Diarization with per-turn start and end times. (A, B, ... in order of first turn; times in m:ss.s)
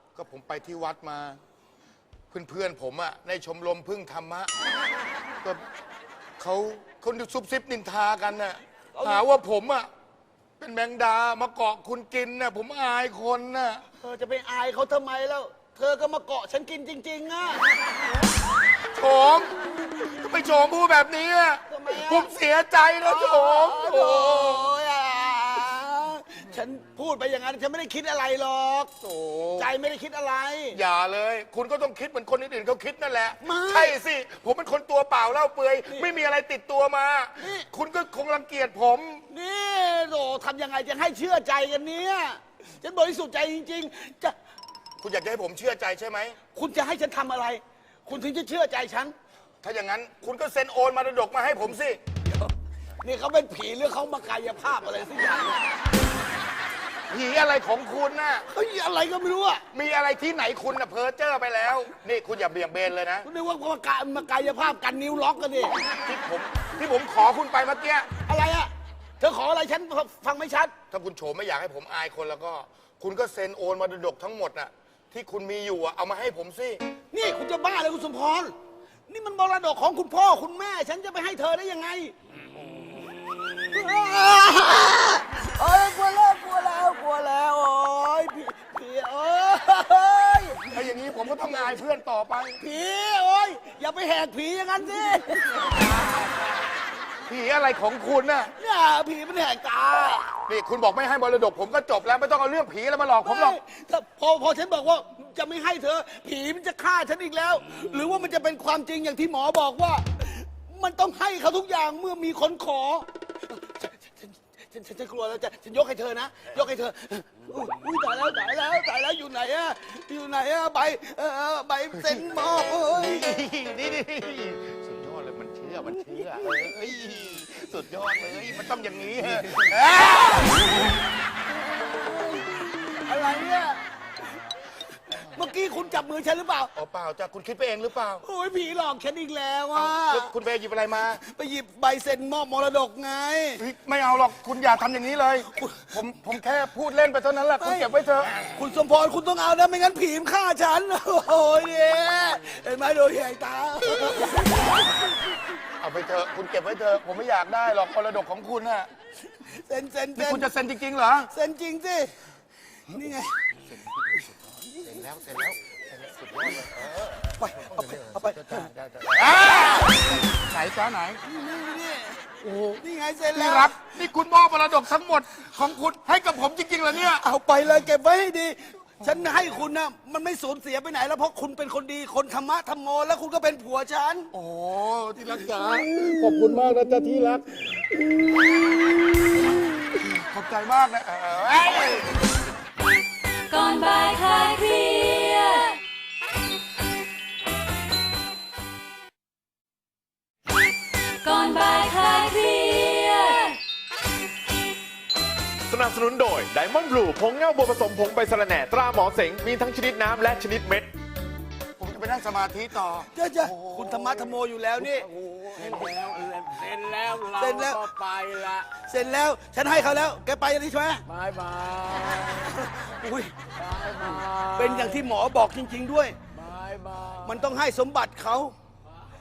0:00.1-0:01.4 A
0:02.3-0:04.5 A
0:06.4-0:09.9 A
0:08.9-0:09.3 B
0:10.6-0:13.8 A
0:14.0-0:17.6 B
0:18.9-0:24.7 A
0:21.7-0:22.3 B
0:23.0-0:28.9 B
0:29.0-0:29.7 A
0:29.6-0:30.8 B
0:30.7-0:39.2 A
0:33.4-0:34.0 B
0:35.9-0:36.2 B
0:37.4-0:37.7 B
0:39.3-0:44.4 B
0:45.0-0:46.4 A
0:46.5-0:49.1 B
0:49.6-0:52.0 A
0:53.0-0:55.6 B
0:57.1-0:58.4 A
0:58.5-0:59.6 B
0:59.7-1:03.3 A
1:03.2-1:05.8 B
1:06.0-1:08.1 A
1:08.3-1:10.7 B
1:10.9-1:16.8 A
1:17.1-1:18.5 B
1:19.1-1:22.1 B
1:22.8-1:30.8 B
1:30.7-1:32.6 A
1:32.6-1:35.9 B
1:37.3-1:38.5 A
1:38.6-1:40.3 B
1:40.5-1:43.6 A
1:43.2-2:03.3 B
2:01.9-2:02.2 A
2:02.8-2:10.1 A
2:09.5-2:10.4 B
2:11.7-2:13.8 B
2:15.2-2:16.7 B
2:16.7-2:18.2 A
2:18.2-2:20.3 B
2:19.7-2:21.2 A
2:21.2-2:23.6 B
2:23.6-2:28.6 A
2:25.6-2:25.9 B
2:27.6-2:27.9 B
2:28.6-2:35.1 B
2:35.8-2:38.9 A
2:39.4-2:40.5 B
2:40.2-2:41.3 A
2:41.3-2:42.1 B
2:42.9-2:43.4 B
2:43.8-2:51.2 A
2:47.4-2:48.7 B
2:51.2-2:53.8 B
2:53.4-2:57.2 A
2:57.0-3:04.3 B
3:04.3-3:07.7 A
3:06.1-3:06.6 B
3:10.0-3:12.1 A
3:13.5-3:15.8 C
3:21.2-3:23.6 C
3:25.7-3:30.9 D
3:31.8-3:34.3 A
3:33.1-3:35.0 B
3:34.9-3:38.7 E
3:37.4-3:37.8 B
3:38.7-3:41.0 B
3:41.0-3:42.5 E
3:42.5-3:43.3 B
3:43.5-3:45.1 E
3:44.6-3:46.2 B
3:46.3-3:47.5 E
3:47.2-3:48.5 B